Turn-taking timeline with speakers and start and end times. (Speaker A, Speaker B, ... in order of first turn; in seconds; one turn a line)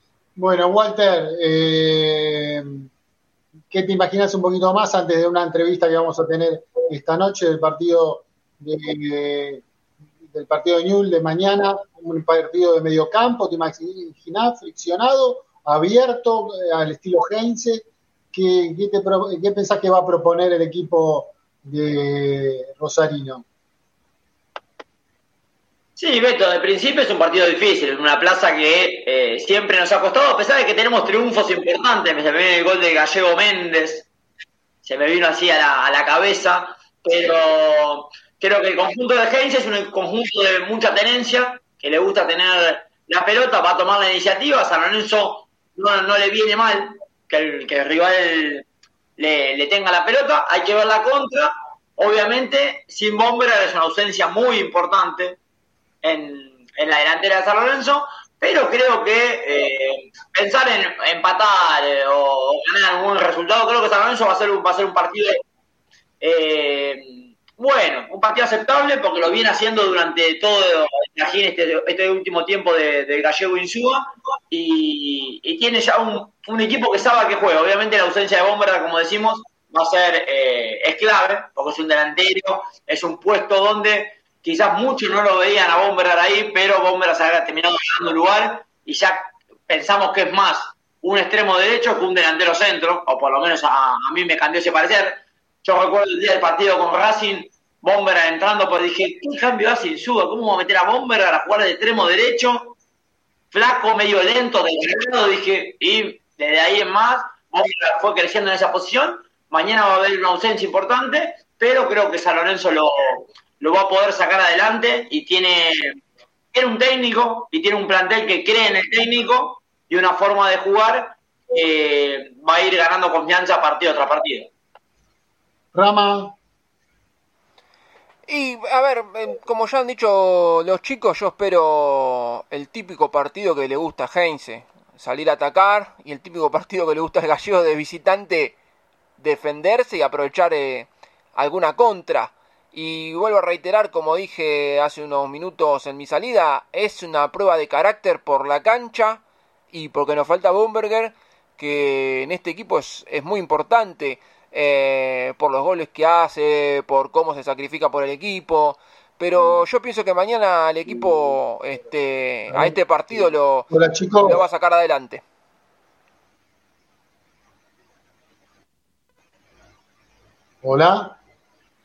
Speaker A: 0.3-2.9
Speaker A: 3.7-9.6
Speaker A: 10.2-23.4
Speaker B: 26.0-34.1
Speaker B: 34.8-48.6
Speaker B: 49.2-55.4
Speaker B: 56.0-65.4
Speaker B: 66.2-102.7
Speaker B: 103.5-116.0
Speaker B: 116.5-124.5
Speaker A: 125.7-126.3
Speaker C: 128.3-138.6
Speaker C: 139.2-163.7
Speaker A: 162.5-164.4
Speaker C: 164.2-165.2
Speaker A: 170.6-171.2